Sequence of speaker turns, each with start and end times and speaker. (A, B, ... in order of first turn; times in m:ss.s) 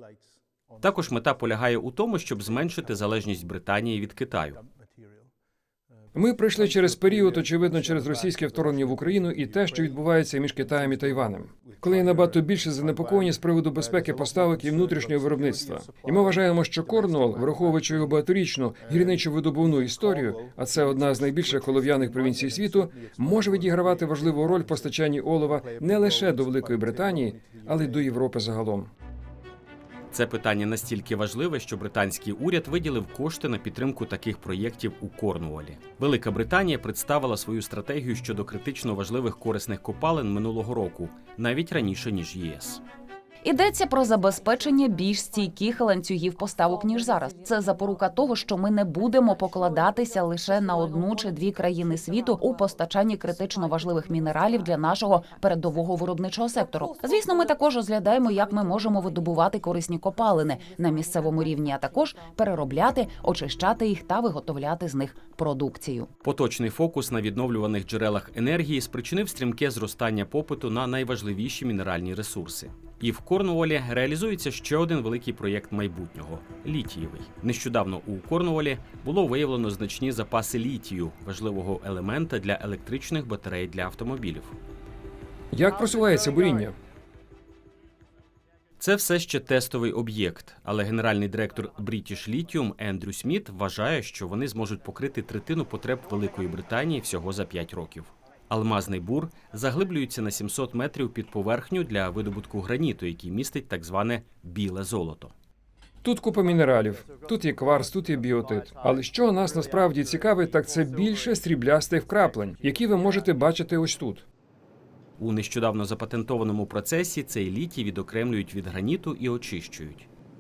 0:00.8-0:04.6 A
0:06.1-0:28.9 B
0:30.1-0:42.8 A
0:43.4-1:06.1 C
1:06.2-1:24.6 A
1:25.5-1:26.8 B
1:28.8-1:45.3 A
1:46.0-1:54.2 B
1:55.2-2:00.1 A